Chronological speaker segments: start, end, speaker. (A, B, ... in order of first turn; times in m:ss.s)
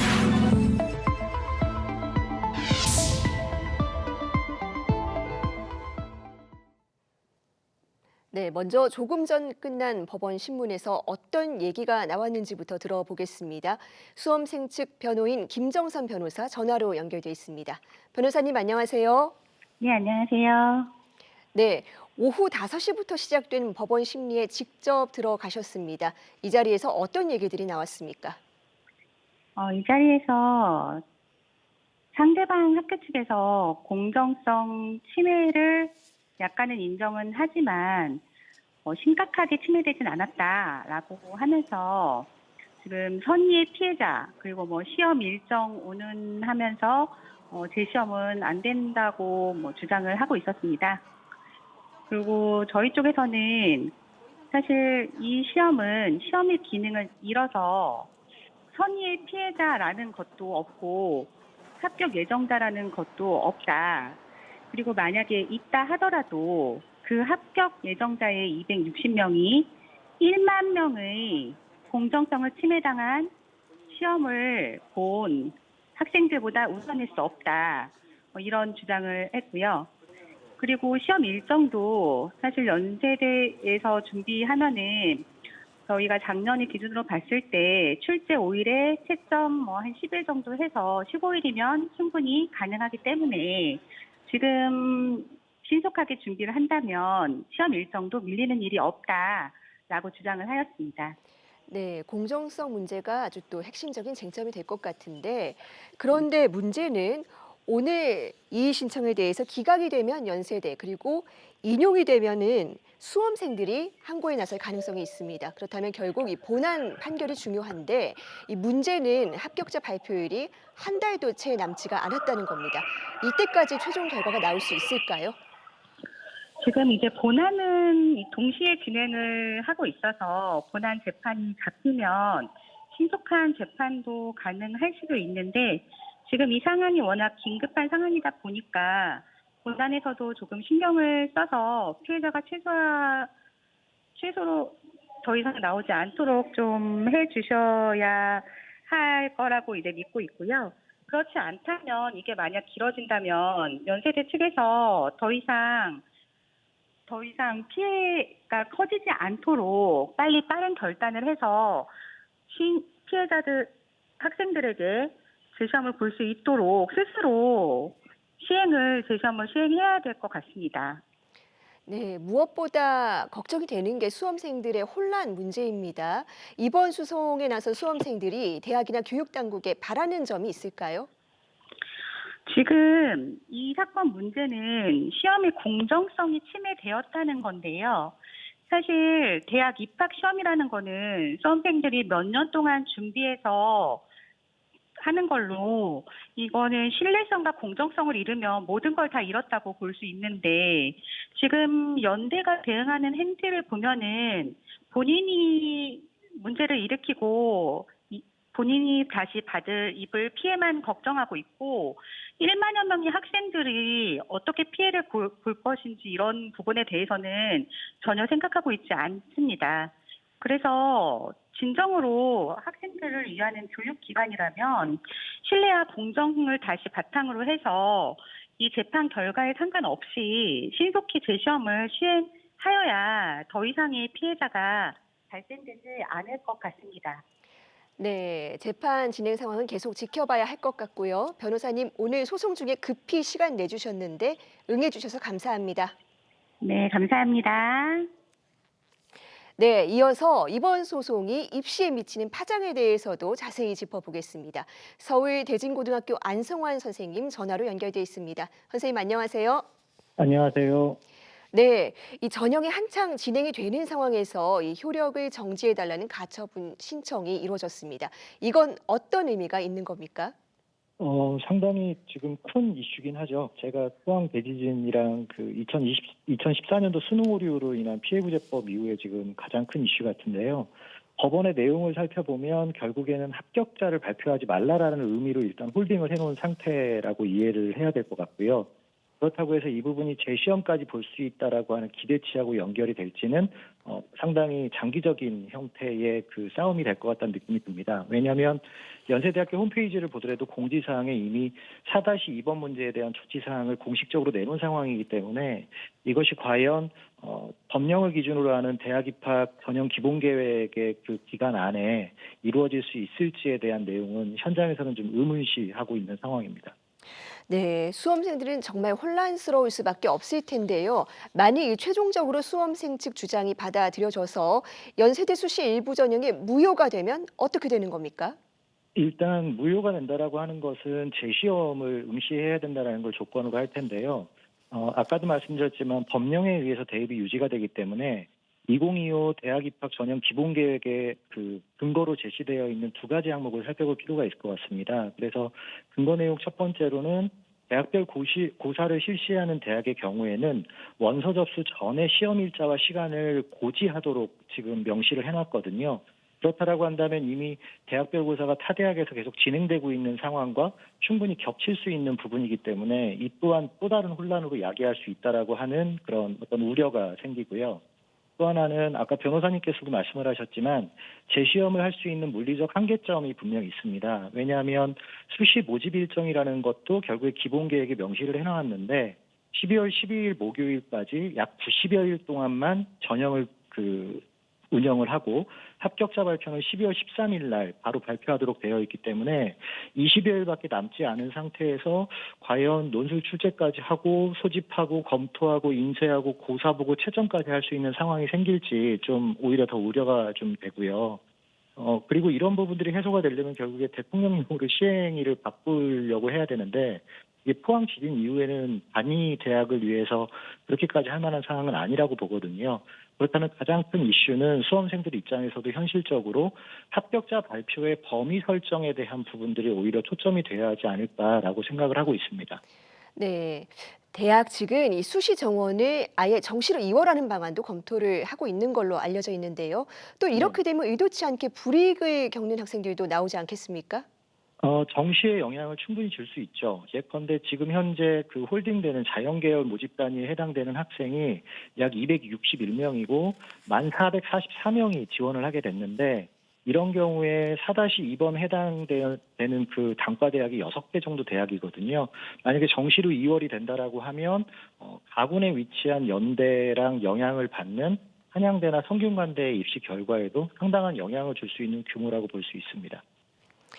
0:08.3-0:19.3 A
0:19.8-0:20.9 B
0:21.5-0:28.4 A
0:29.6-0:31.0 B
0:32.1-0:38.2 B
0:38.8-0:42.3 B
0:42.8-0:51.0 B
0:52.1-0:53.9 B
0:54.5-0:58.1 B
0:58.7-1:04.2 B
1:04.7-1:13.3 B
1:13.9-1:19.9 B
1:20.6-1:25.3 B
1:25.9-1:41.2 B
1:41.7-2:05.4 A
2:06.6-2:23.3 B
2:24.2-2:36.0 B
2:37.1-2:41.9 B
2:42.5-2:51.0 B
2:51.9-3:01.1 A
3:02.4-3:08.2 B
3:08.7-3:14.0 B
3:15.0-3:57.2 B
3:58.0-4:05.9 A
4:06.6-4:08.1 B
4:09.6-4:19.6 A
4:20.2-4:21.0 C
4:21.5-4:30.3 A
4:31.0-4:48.7 C
4:49.2-5:16.7 C
5:17.5-5:28.4 A
5:28.9-6:07.8 C
6:08.4-6:41.2 C
6:41.8-7:02.6 C
7:03.2-7:14.0 A
7:10.3-7:10.6 C
7:14.6-7:43.0 C